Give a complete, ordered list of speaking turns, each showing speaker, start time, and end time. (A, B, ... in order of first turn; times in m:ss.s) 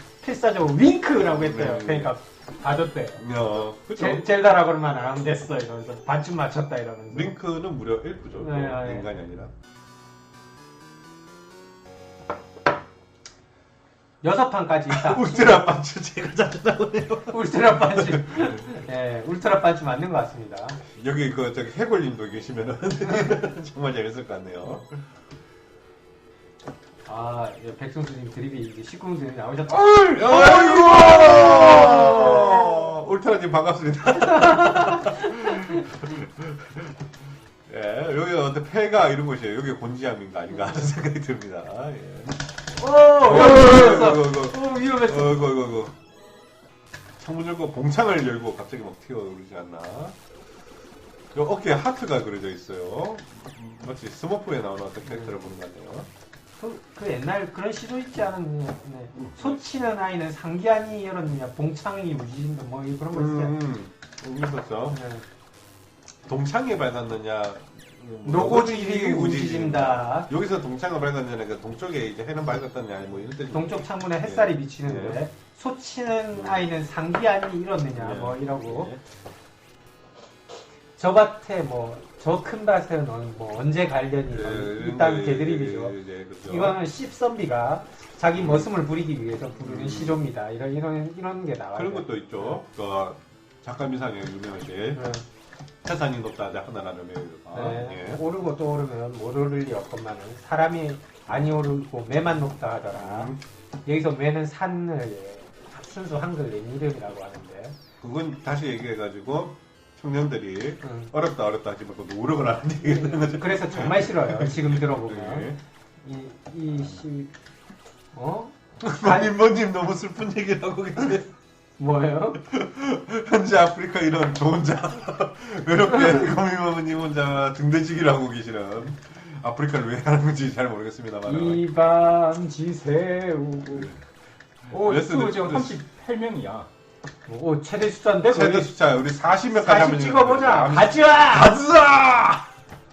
0:00.2-0:03.2 A
0:01.3-0:02.1 B
0:03.2-0:04.3 B
0:03.9-0:07.3 A
0:07.1-0:09.5 B
0:08.4-0:09.1 A
0:14.2-0:15.6 A
0:14.9-0:18.6 B
0:17.3-0:20.8 A
0:20.9-0:24.9 B
0:27.0-0:30.4 A
0:29.7-0:32.5 C
0:30.1-0:36.8 B
0:34.1-0:35.9 A
0:37.7-0:42.3 B
0:42.8-0:45.4 A
0:43.2-0:45.9 B
0:47.2-0:50.2 B
0:51.3-0:56.1 B
0:55.0-0:55.3 A
0:56.6-1:03.5 A
0:59.1-0:59.6 B
1:03.1-1:05.0 B
1:04.9-1:05.2 A
1:06.3-1:15.2 B
1:08.2-1:10.3 A
1:13.5-1:18.9 A
1:16.3-1:16.7 B
1:18.0-1:19.0 B
1:21.0-1:32.6 A
1:24.3-1:26.8 B
1:28.3-1:28.7 B
1:29.5-1:30.2 B
1:31.7-1:35.1 B
1:35.0-1:35.2 A
1:35.8-1:38.2 B
1:37.5-1:43.3 A
1:42.9-1:43.4 B
1:43.8-1:47.8 A
1:48.0-1:55.6 B
1:50.8-1:51.1 A
1:52.8-1:55.5 A
1:56.0-1:57.3 A
1:58.1-1:59.3 A
1:58.8-2:01.3 B
2:01.8-2:02.4 A
2:02.4-2:11.6 B
2:11.2-2:13.9 A
2:14.7-2:16.7 C
2:14.7-2:15.8 B
2:17.2-2:18.7 A
2:18.2-2:22.4 B
2:19.5-2:21.6 A